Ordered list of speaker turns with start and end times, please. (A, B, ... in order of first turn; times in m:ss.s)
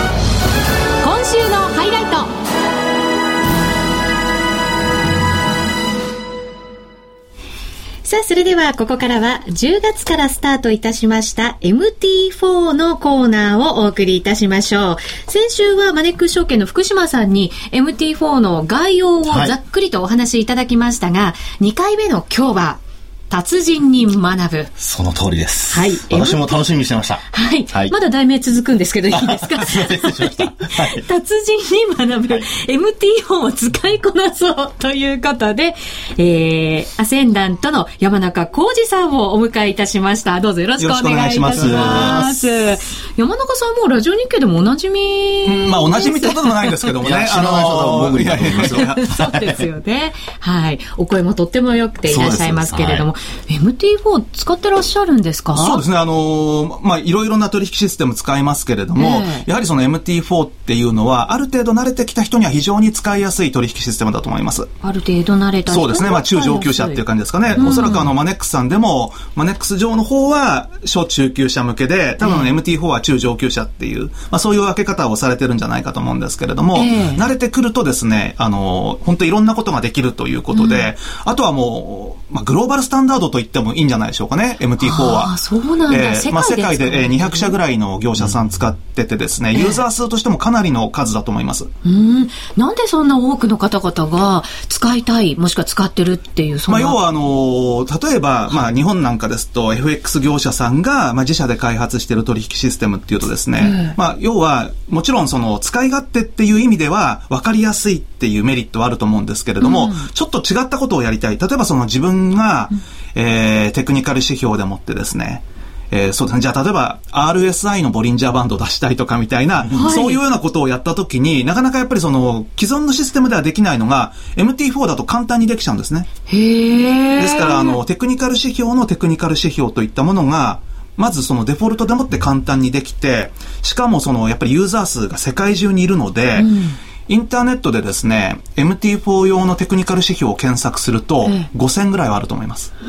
0:01.0-0:02.3 A
0:08.0-0:24.7 A
0:19.3-0:19.5 B
0:24.8-0:27.9 B
0:25.7-0:26.6 A
0:27.3-0:46.9 A
0:29.1-0:31.0 B
0:40.8-0:42.4 C
0:41.6-0:42.3 B
0:45.4-0:49.0 C
0:47.0-0:49.6 B
0:48.6-0:55.8 A
0:52.1-0:53.1 B
0:55.5-1:04.7 C
0:59.0-0:59.4 A
1:04.8-1:07.0 A
1:05.7-1:25.4 C
1:07.6-1:08.1 A
1:12.2-1:12.5 A
1:16.7-1:17.2 A
1:20.5-1:20.9 A
1:24.8-1:27.5 A
1:25.9-1:31.7 C
1:29.5-1:29.8 A
1:31.8-1:37.0 A
1:36.7-2:06.1 C
1:43.6-1:44.0 A
1:49.6-1:50.0 A
1:59.7-2:00.2 A
2:06.3-2:07.8 A
2:07.2-2:16.5 C
2:16.4-2:16.8 A
2:17.1-2:22.7 C